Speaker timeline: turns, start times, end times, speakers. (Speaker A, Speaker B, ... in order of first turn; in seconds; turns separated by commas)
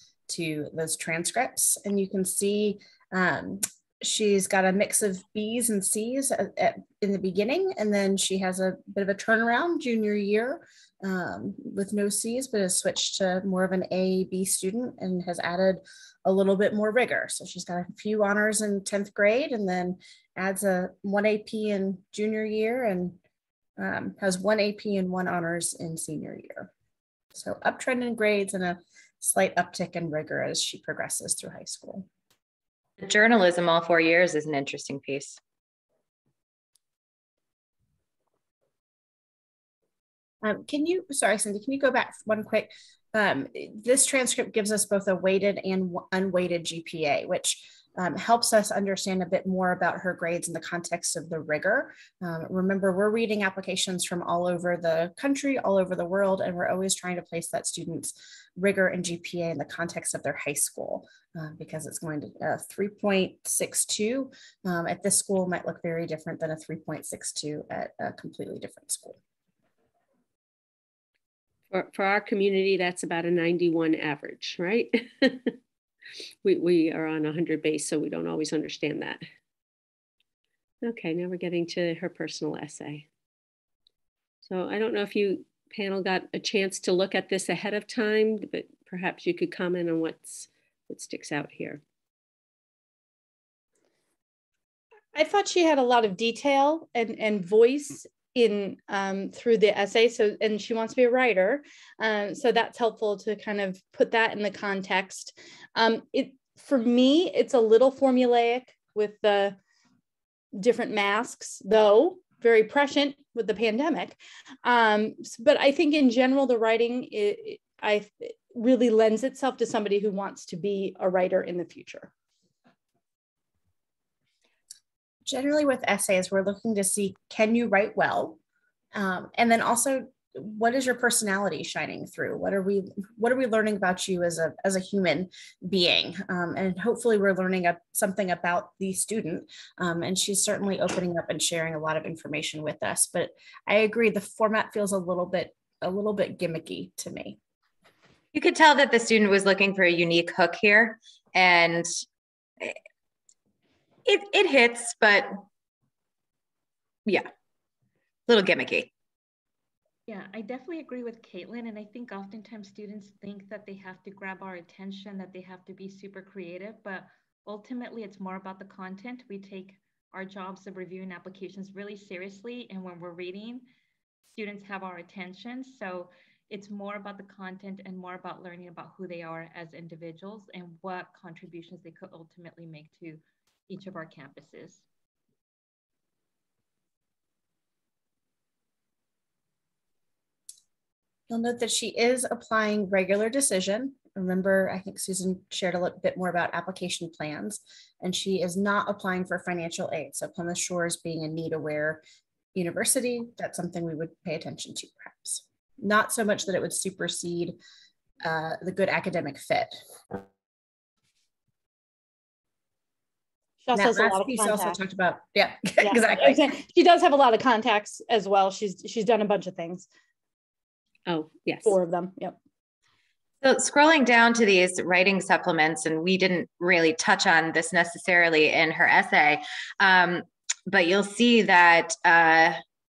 Speaker A: 0.3-23.2, Speaker A: 23.8-26.7, Speaker A: 27.3-32.1, Speaker B: 33.0-35.4, Speaker A: 40.4-69.2, Speaker C: 71.7-75.5, Speaker C: 76.4-79.2, Speaker C: 80.8-83.1, Speaker C: 84.4-91.8, Speaker D: 95.2-109.6, Speaker D: 110.5-122.1, Speaker A: 125.2-128.4, Speaker A: 128.9-147.4, Speaker B: 148.3-151.9, Speaker B: 154.1-155.3, Speaker B: 158.3-158.9, Speaker E: 160.1-173.7, Speaker E: 174.3-184.8, Speaker A: 191.3-202.0, Speaker A: 202.6-207.6, Speaker A: 208.2-210.2, Speaker D: 213.6-214.8, Speaker A: 213.8-216.5, Speaker D: 215.8-219.9, Speaker C: 221.1-221.8, Speaker D: 221.7-222.4, Speaker B: 223.4-232.6